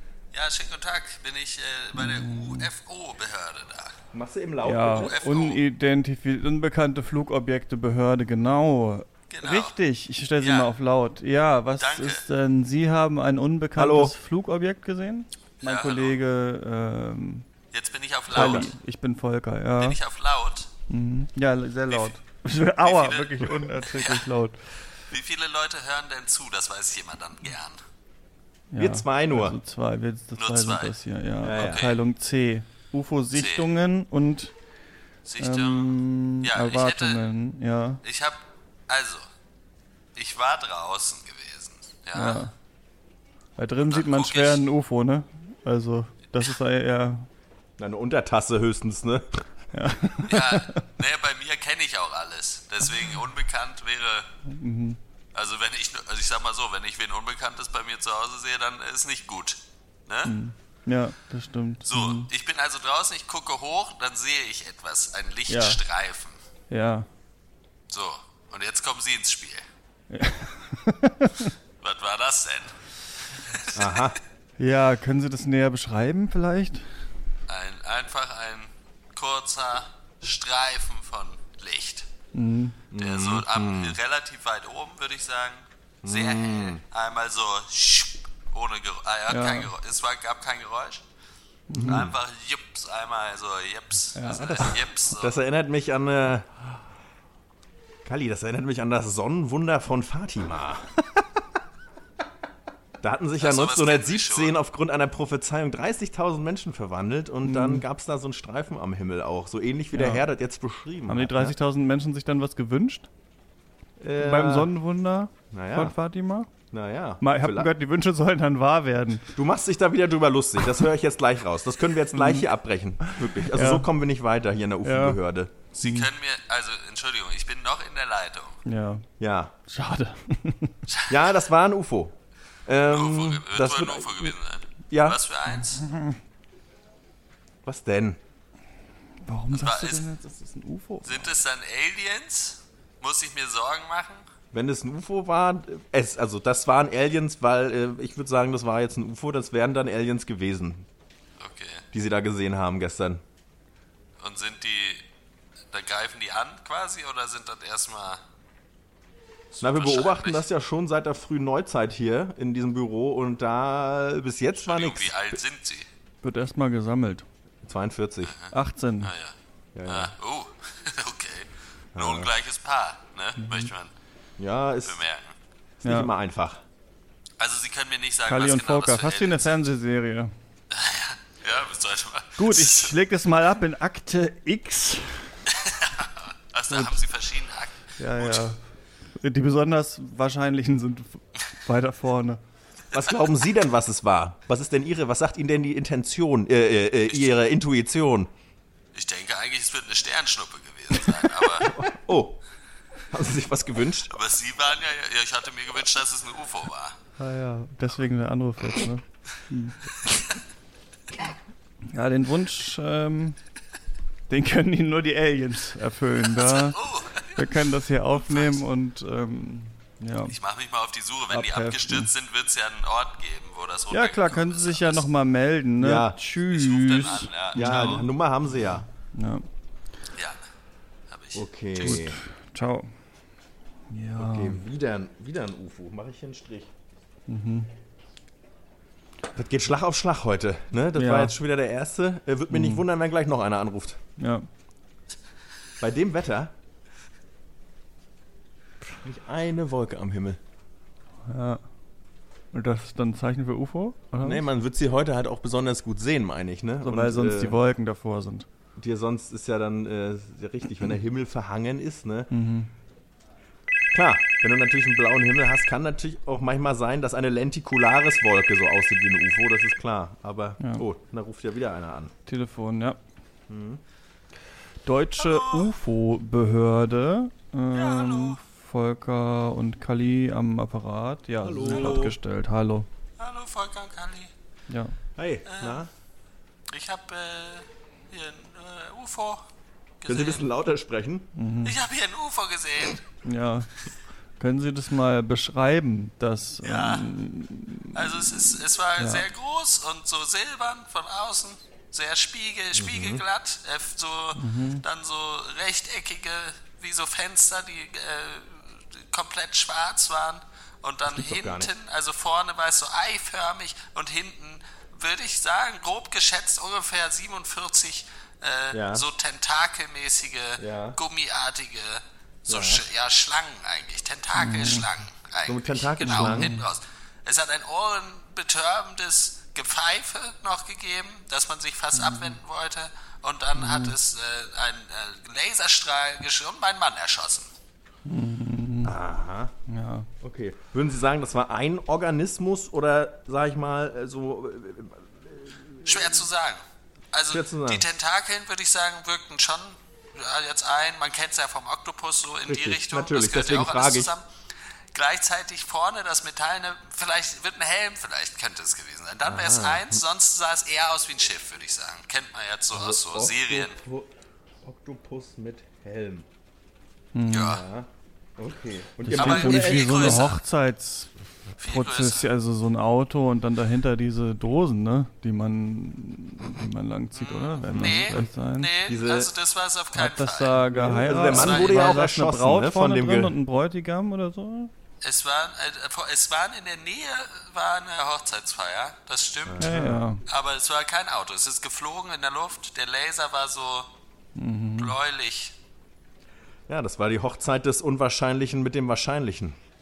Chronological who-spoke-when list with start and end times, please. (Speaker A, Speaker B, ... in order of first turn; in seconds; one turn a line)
Speaker A: 0.3-4.0
Speaker B: 1.9-2.7
Speaker C: 4.1-5.2
Speaker B: 4.6-17.5
Speaker A: 4.9-5.6
Speaker A: 9.3-9.8
Speaker A: 10.4-10.7
Speaker A: 11.8-12.2
Speaker C: 13.8-14.2
Speaker A: 15.6-16.2
Speaker A: 17.7-18.7
Speaker C: 18.3-18.7
Speaker B: 18.3-20.0
Speaker A: 19.8-20.7
Speaker B: 20.9-24.6
Speaker A: 22.8-24.3
Speaker A: 25.1-27.8
Speaker B: 28.7-34.5
Speaker C: 28.8-29.6
Speaker A: 30.4-30.9
Speaker C: 31.4-32.0
Speaker A: 31.5-32.0
Speaker A: 33.3-33.7
Speaker A: 35.2-37.2
Speaker B: 35.4-38.0
Speaker A: 38.0-39.3
Speaker A: 40.1-42.5
Speaker B: 42.1-42.5
Speaker B: 43.6-47.3
Speaker A: 43.8-44.6
Speaker C: 47.8-49.4
Speaker B: 49.7-50.8
Speaker A: 50.2-54.3
Speaker B: 54.5-55.0
Speaker A: 55.3-60.4
Speaker B: 60.2-62.3
Speaker A: 61.9-66.4
Speaker B: 65.5-65.8
Speaker B: 66.7-67.1
Speaker A: 67.9-69.7
Speaker B: 70.1-71.5
Speaker A: 71.8-74.2
Speaker C: 73.7-74.2
Speaker B: 74.6-76.9
Speaker A: 77.5-82.1
Speaker B: 82.3-82.8
Speaker C: 82.9-84.0
Speaker A: 83.0-91.0
Speaker C: 86.0-86.8
Speaker B: 89.3-89.7
Speaker B: 91.7-92.1
Speaker C: 91.7-92.1
Speaker A: 91.8-95.4
Speaker B: 94.2-94.7
Speaker C: 94.3-96.5
Speaker C: 98.0-100.9
Speaker C: 103.0-111.5
Speaker A: 103.4-104.5
Speaker B: 107.4-107.8
Speaker B: 109.9-110.2
Speaker B: 111.1-113.1
Speaker C: 114.0-114.7
Speaker B: 114.2-116.5
Speaker C: 115.5-116.0
Speaker C: 116.7-117.7
Speaker B: 117.2-119.3
Speaker C: 119.3-125.5
Speaker B: 122.1-122.5
Speaker B: 123.1-123.9
Speaker B: 124.8-125.2
Speaker A: 125.7-128.6
Speaker B: 125.8-126.1
Speaker B: 128.7-129.1
Speaker C: 129.2-129.5
Speaker B: 129.7-130.8
Speaker A: 130.9-131.3
Speaker C: 131.1-132.2
Speaker C: 132.7-134.3
Speaker A: 132.9-135.8
Speaker C: 134.9-135.2
Speaker B: 135.5-136.2
Speaker C: 137.6-138.2
Speaker B: 139.2-141.4
Speaker A: 139.5-140.1
Speaker A: 141.0-144.3
Speaker C: 144.5-150.9
Speaker A: 151.4-151.8
Speaker C: 151.9-153.2
Speaker A: 154.2-155.1
Speaker A: 155.7-158.2
Speaker A: 159.5-160.4
Speaker C: 159.6-165.4
Speaker A: 164.6-165.9
Speaker B: 166.2-167.3
Speaker C: 167.6-168.3
Speaker A: 168.2-173.9
Speaker B: 168.5-169.1
Speaker C: 169.8-170.2
Speaker C: 171.9-172.3
Speaker C: 174.4-175.0
Speaker A: 174.8-175.4
Speaker B: 175.8-176.1
Speaker C: 175.8-176.6
Speaker A: 177.4-179.5
Speaker B: 178.3-180.3
Speaker A: 180.7-183.0
Speaker B: 182.4-185.4
Speaker A: 185.5-188.5
Speaker B: 186.7-187.0
Speaker B: 188.0-188.6
Speaker B: 189.2-192.4
Speaker C: 192.9-198.3
Speaker A: 198.9-201.8
Speaker C: 201.6-202.4
Speaker C: 203.1-204.1
Speaker A: 204.1-207.0
Speaker B: 207.2-209.9
Speaker A: 210.1-210.3
Speaker B: 211.8-213.4
Speaker B: 214.3-216.8
Speaker A: 216.3-218.6
Speaker B: 217.3-220.3
Speaker A: 220.3-225.1
Speaker B: 221.3-222.1
Speaker B: 223.9-228.1
Speaker C: 225.8-226.2
Speaker A: 226.5-228.1
Speaker C: 227.5-228.9
Speaker B: 229.1-229.4
Speaker A: 230.2-230.5
Speaker A: 231.1-232.1
Speaker C: 231.3-232.2
Speaker B: 231.8-232.9
Speaker B: 233.9-234.6
Speaker C: 234.2-236.7
Speaker B: 237.3-237.7
Speaker C: 239.3-244.0
Speaker B: 240.9-241.3
Speaker B: 242.5-242.8
Speaker B: 244.2-244.5
Speaker C: 245.8-246.5
Speaker C: 249.0-250.4
Speaker B: 251.3-251.6
Speaker B: 252.5-254.5
Speaker C: 254.2-257.6
Speaker B: 256.8-258.5
Speaker C: 258.8-262.3
Speaker B: 262.3-262.7
Speaker C: 263.9-272.1
Speaker B: 270.6-270.9
Speaker B: 272.3-273.0
Speaker C: 273.5-273.8
Speaker B: 274.9-282.9
Speaker A: 275.2-275.7
Speaker A: 277.7-278.4
Speaker C: 281.4-282.2
Speaker A: 281.7-282.1
Speaker A: 283.2-284.3
Speaker B: 284.7-284.9
Speaker C: 285.2-285.9
Speaker A: 285.4-285.8
Speaker A: 286.7-289.4
Speaker A: 290.0-290.5
Speaker C: 290.1-291.3
Speaker B: 291.4-291.8
Speaker A: 291.6-293.1
Speaker B: 293.2-293.8
Speaker B: 294.4-298.4
Speaker A: 296.6-297.1
Speaker A: 297.9-337.5
Speaker B: 299.0-299.3
Speaker C: 302.7-303.2
Speaker B: 304.4-304.8
Speaker C: 311.1-311.7
Speaker C: 318.7-319.1
Speaker C: 320.6-321.0
Speaker C: 322.5-322.9
Speaker B: 324.4-324.9
Speaker C: 325.4-326.6
Speaker B: 326.0-326.6
Speaker B: 331.9-332.4
Speaker B: 333.6-334.0
Speaker B: 338.1-339.0
Speaker C: 338.8-339.5
Speaker B: 339.7-340.1
Speaker C: 340.2-346.2
Speaker A: 345.8-354.3
Speaker C: 347.3-347.9
Speaker C: 352.5-354.1
Speaker A: 354.9-363.8
Speaker C: 359.2-360.0
Speaker C: 362.7-364.1
Speaker C: 364.6-366.3
Speaker B: 367.1-367.6
Speaker A: 367.3-367.6
Speaker C: 367.5-370.3
Speaker B: 369.0-378.7
Speaker A: 369.2-370.4
Speaker A: 371.6-372.3
Speaker A: 377.1-382.0
Speaker C: 377.7-378.3
Speaker C: 378.9-379.3
Speaker B: 379.9-384.7
Speaker C: 380.7-383.4
Speaker A: 385.0-393.9
Speaker C: 389.5-390.0
Speaker B: 389.6-390.2
Speaker B: 394.4-395.0
Speaker A: 394.8-395.6
Speaker C: 396.7-399.6